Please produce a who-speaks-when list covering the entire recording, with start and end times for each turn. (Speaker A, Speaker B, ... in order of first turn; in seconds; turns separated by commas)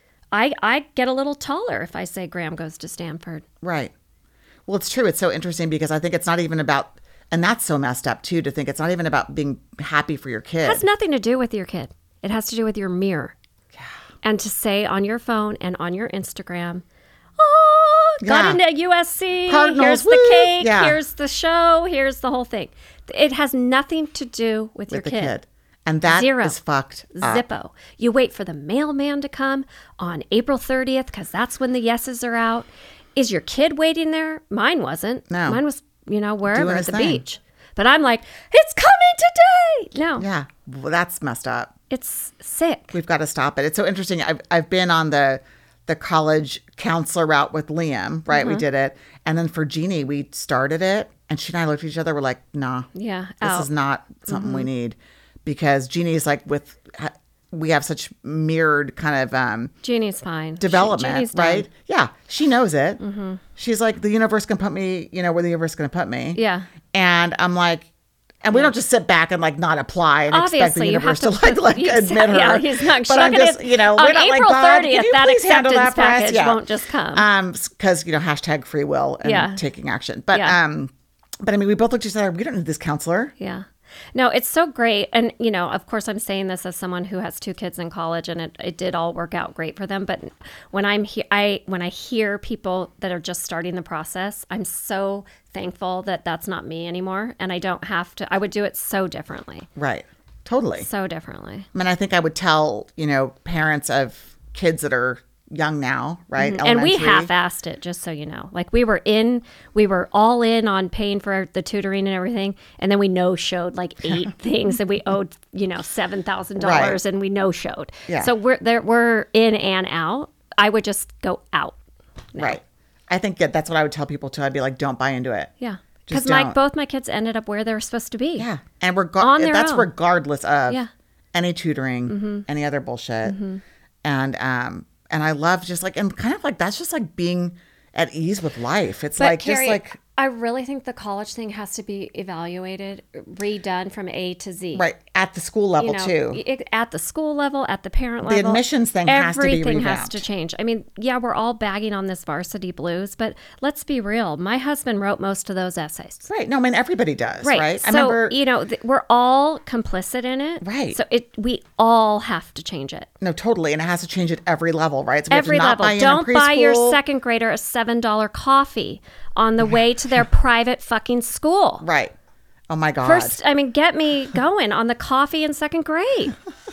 Speaker A: 0.3-3.5, Speaker B: 3.6-3.9, Speaker B: 4.7-10.8, Speaker A: 10.6-13.3, Speaker A: 14.2-16.8, Speaker A: 17.4-25.4, Speaker B: 18.2-18.6, Speaker B: 19.5-21.0, Speaker B: 24.9-27.4, Speaker A: 26.1-26.6, Speaker A: 27.2-40.2, Speaker B: 35.3-35.6, Speaker B: 36.5-37.2, Speaker B: 40.2-41.7, Speaker A: 41.9-42.9, Speaker B: 42.9-52.9, Speaker A: 48.3-48.6, Speaker A: 53.0-53.7, Speaker B: 53.4-59.7, Speaker A: 54.3-54.7, Speaker A: 59.8-61.7, Speaker B: 60.6-63.0, Speaker A: 63.0-63.4, Speaker B: 63.6-66.4, Speaker A: 66.4-66.7, Speaker B: 66.9-67.9, Speaker B: 68.4-76.6, Speaker A: 70.3-77.2, Speaker B: 77.1-80.9, Speaker A: 79.2-79.6, Speaker B: 81.4-83.3, Speaker A: 83.4-99.7, Speaker B: 99.8-100.9, Speaker A: 100.8-101.7, Speaker B: 101.7-107.3, Speaker A: 106.4-121.8, Speaker B: 116.6-117.0, Speaker B: 118.1-118.3, Speaker A: 122.3-122.6, Speaker B: 122.4-125.5, Speaker A: 125.6-128.5, Speaker B: 126.1-126.6, Speaker B: 128.4-130.8, Speaker A: 129.2-129.9, Speaker B: 131.3-133.4, Speaker A: 132.1-132.5, Speaker A: 133.3-133.6, Speaker B: 134.0-140.0, Speaker A: 139.2-144.8, Speaker B: 144.7-146.4, Speaker A: 145.8-156.2, Speaker B: 148.3-150.2, Speaker B: 156.2-158.4, Speaker A: 157.4-163.1, Speaker B: 160.6-161.0, Speaker B: 163.2-167.0, Speaker A: 165.3-171.9, Speaker B: 171.8-172.1, Speaker B: 172.7-173.4, Speaker A: 173.0-176.4